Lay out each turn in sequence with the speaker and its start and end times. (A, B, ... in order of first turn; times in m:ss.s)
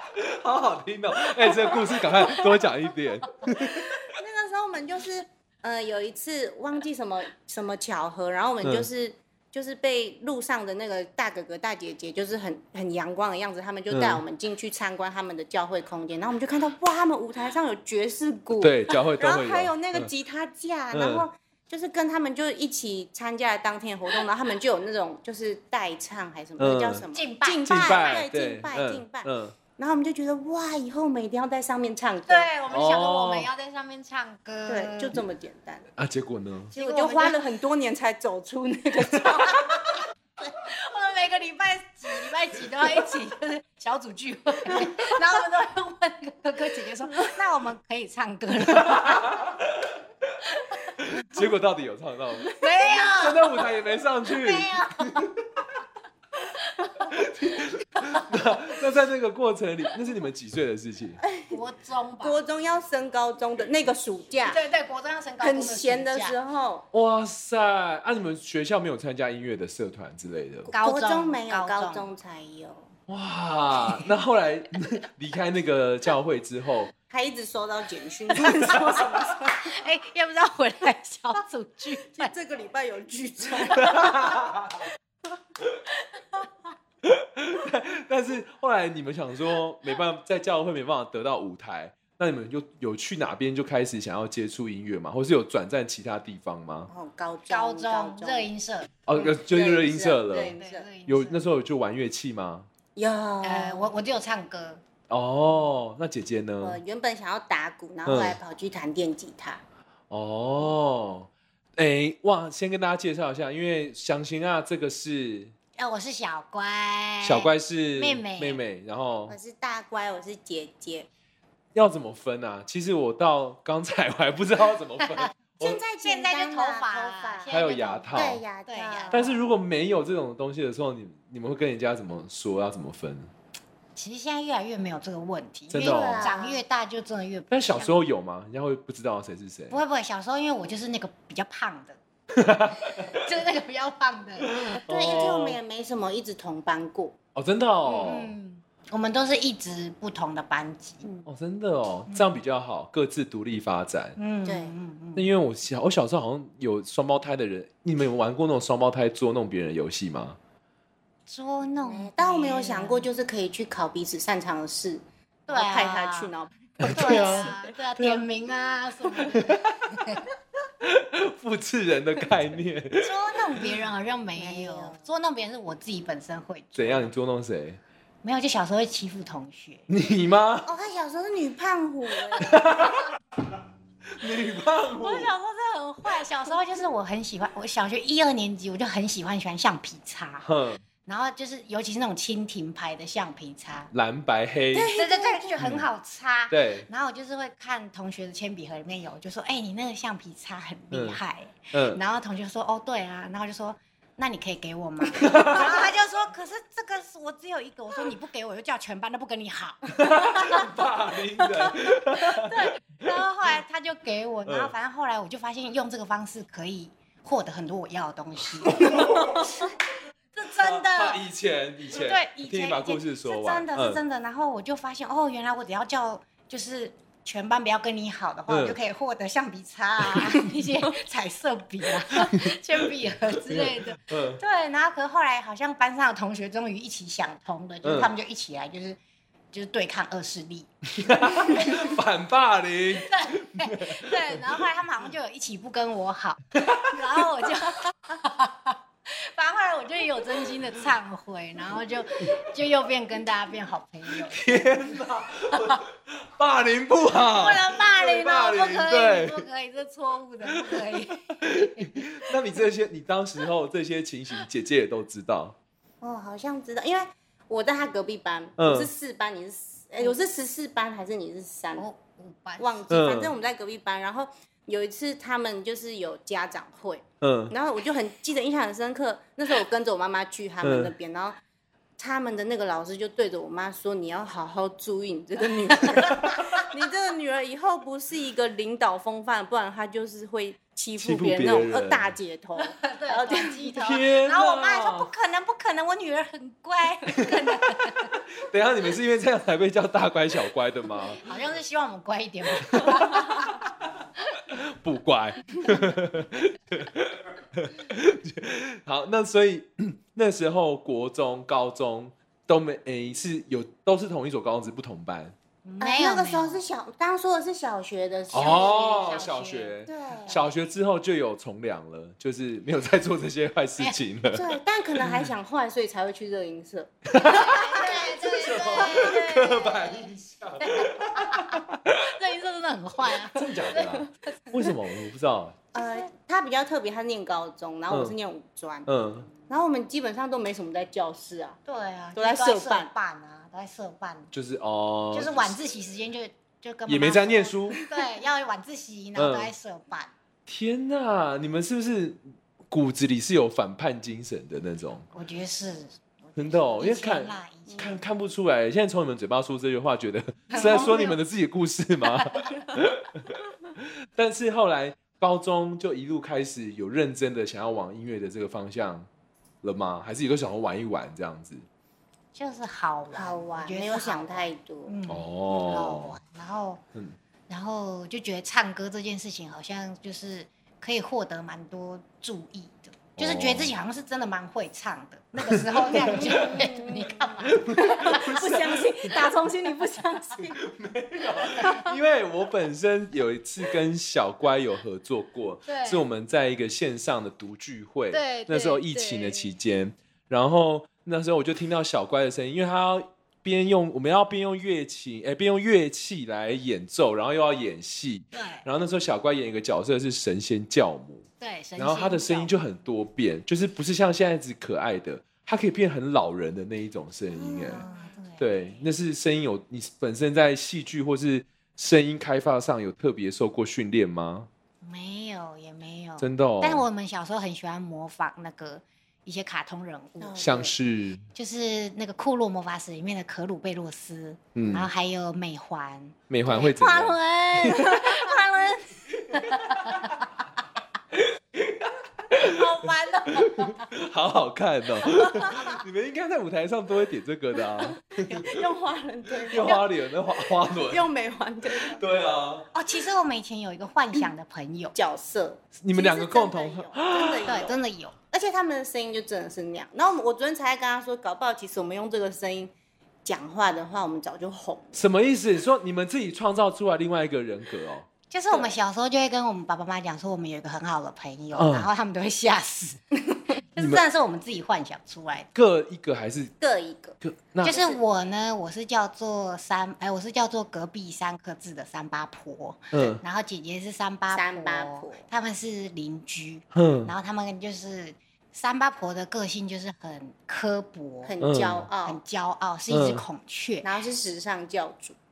0:00.1-0:04.0 A
0:01.5-0:02.5 B
0:03.4-0:32.5 B
0:08.6-0:08.9 A
0:13.9-0:14.2 A
0:18.6-0:20.1 A
0:20.9-0:21.2 A
0:26.6-0:27.0 A
0:27.1-0:28.2 C
0:27.7-0:29.6 A
0:32.3-0:35.2 C
0:32.7-0:33.5 A
0:34.7-0:35.9 B
0:36.0-0:36.7 A
0:36.7-0:39.8 B
0:36.8-0:37.4 C
0:39.4-0:39.9 C
0:40.5-0:49.3 C
0:46.8-0:47.4 B
0:48.8-0:50.0 A
0:51.0-0:55.3 A
0:52.6-0:53.5 C
0:54.3-0:55.2 C
0:56.6-0:57.1 C
0:57.1-1:01.2 A
1:01.2-1:01.6 B
1:01.5-1:02.4 C
1:02.2-1:04.6 B
1:04.4-1:06.4 C
1:05.4-1:06.9 B
1:06.9-1:10.7 A
1:10.7-1:12.9 B
1:10.7-1:12.1 C
1:13.1-1:16.9 A
1:17.1-1:19.8 B
1:19.6-1:22.3 C
1:22.0-1:24.4 B
1:23.8-1:24.8 A
1:27.0-1:36.9 A
1:36.9-1:38.5 B
1:37.5-1:38.9 C
1:39.1-1:40.6 A
1:39.2-1:40.9 B
1:40.5-1:41.4 C
1:41.1-1:42.7 A
1:43.0-1:43.9 B
1:43.4-1:44.8 C
1:45.1-1:46.8 A
1:46.6-1:49.6 B
1:48.0-1:48.4 A
1:50.1-1:55.5 A
1:55.8-1:58.6 C
1:57.2-1:59.3 A
1:59.3-2:01.1 B
2:01.7-2:05.8 A
2:05.0-2:05.3 C
2:05.6-2:07.6 B
2:06.0-2:09.3 C
2:07.5-2:08.4 A
2:08.1-2:09.4 B
2:09.1-2:13.3 A
2:14.0-2:18.0 C
2:15.7-2:16.3 A
2:15.8-2:16.6 B
2:17.5-2:19.8 A
2:19.7-2:22.0 C
2:22.3-2:23.2 A
2:22.8-2:25.3 C
2:24.6-2:25.6 A
2:24.9-2:27.2 B
2:27.3-2:28.3 A
2:27.8-2:28.2 B
2:28.1-2:31.0 C
2:31.3-2:34.2 A
2:34.2-2:35.3 C
2:34.4-2:34.8 B
2:35.2-2:40.4 A
2:41.3-2:43.1 C
2:41.8-2:47.6 B
2:45.5-2:46.3 C
2:46.8-2:48.2 A
2:46.8-2:50.2 C
2:49.2-2:50.2 A
2:50.8-2:53.8 A
2:53.0-2:57.0 C
2:54.4-2:55.1 B
2:56.7-2:57.8 A
2:58.2-2:59.8 C
2:59.9-3:00.7 A
3:00.6-3:02.8 B
3:02.4-3:03.1 A
3:04.2-3:05.3 A
3:05.0-3:10.5 C
3:10.4-3:10.8 A
3:11.0-3:13.9 C
3:13.9-3:14.9 A
3:14.7-3:15.5 B
3:14.9-3:30.7 C
3:15.6-3:15.9 A
3:16.5-3:16.9 A
3:20.9-3:21.2 A
3:21.7-3:22.0 A
3:25.2-3:25.8 A
3:30.0-3:32.5 A
3:32.1-3:39.7 C
3:34.4-3:34.7 A
3:38.6-3:39.7 A
3:40.3-3:41.2 C
3:40.6-3:44.0 A
3:41.9-3:59.0 C
3:48.5-3:48.8 A
3:52.2-3:52.8 A
3:53.4-3:54.4 A
3:57.8-3:58.1 A
3:59.5-4:00.7 C
4:01.0-4:04.5 A
4:01.2-4:01.9 C
4:03.0-4:14.7 C
4:06.7-4:07.4 A
4:14.3-4:19.4 A
4:15.5-4:15.8 C
4:17.3-4:22.2 C
4:20.6-4:25.6 A
4:26.0-4:31.9 B
4:28.6-4:28.9 A
4:31.8-4:32.9 C
4:32.6-4:41.4 B
4:32.9-4:33.3 A
4:37.2-4:37.5 A
4:40.6-4:40.9 A
4:42.0-4:53.7 B
4:46.0-4:46.4 C
4:51.0-4:52.1 A
4:52.6-4:58.1 C
4:53.8-4:55.1 A
4:57.4-4:57.9 A
4:58.4-5:01.2 A
5:01.1-5:03.5 C
5:02.6-5:03.2 A
5:04.5-5:15.3 A
5:15.6-5:16.6 C
5:15.8-5:18.7 B
5:18.3-5:19.7 C
5:18.3-5:24.4 A
5:19.9-5:20.4 B
5:24.3-5:27.5 B
5:25.0-5:25.3 A
5:27.1-5:32.0 A
5:27.2-5:34.5 C
5:33.3-5:35.6 A
5:35.7-5:38.9 B
5:35.8-5:36.1 C
5:37.9-5:38.1 A
5:38.9-5:39.3 A
5:39.4-5:41.6 B
5:41.6-5:44.3 C
5:42.2-5:42.9 B
5:44.3-5:45.6 A
5:45.1-5:50.1 C
5:46.9-5:47.8 A
5:49.2-5:49.5 A
5:50.4-5:55.1 A
5:55.1-5:57.9 C
5:56.4-6:09.1 A
5:57.7-5:58.0 B
6:00.5-6:01.1 C
6:00.6-6:01.1 B
6:02.1-6:02.5 C
6:09.6-6:11.6 A
6:12.3-6:16.8 C
6:13.1-6:14.9 B
6:15.1-6:16.2 A
6:17.5-6:28.6 C
6:23.2-6:23.7 A
6:25.4-6:26.6 A
6:25.9-6:30.6 B
6:27.5-6:29.1 A
6:30.6-6:51.2 A
6:31.6-6:31.9 B
6:35.6-6:36.0 C
6:38.1-6:39.5 C
6:48.3-6:48.6 C
6:51.4-6:52.5 C
6:51.8-6:57.8 A
6:57.4-6:58.1 B
6:57.6-6:58.8 C
6:58.4-7:04.5 A
7:04.8-7:10.6 C
7:06.2-7:06.8 A
7:10.2-7:10.7 B
7:10.4-7:11.2 A
7:11.3-7:20.2 C
7:14.5-7:14.9 A
7:16.3-7:18.0 A
7:17.7-7:18.7 B
7:19.3-7:20.2 A
7:21.1-7:22.7 A
7:22.4-7:23.9 C
7:23.3-7:28.6 A
7:28.1-7:29.9 B
7:29.5-7:31.1 A
7:30.5-7:32.0 B
7:31.7-7:32.7 A
7:32.7-7:35.0 C
7:34.9-7:37.8 B
7:35.8-7:37.6 A
7:37.5-7:38.1 C
7:38.3-7:42.7 B
7:43.2-7:45.0 B
7:44.9-7:48.1 A
7:48.3-7:55.5 C
7:48.5-7:48.8 B
7:51.5-7:51.9 A
7:53.8-7:54.0 A
7:55.5-7:56.5 A
7:56.6-7:58.0 B
7:57.2-7:57.8 A
7:57.6-8:11.3 C
8:02.9-8:03.2 A
8:04.3-8:05.2 B
8:06.7-8:07.1 A
8:11.2-8:12.2 B
8:11.4-8:11.9 A
8:12.0-8:13.9 C
8:12.9-8:13.2 A
8:13.8-8:15.2 B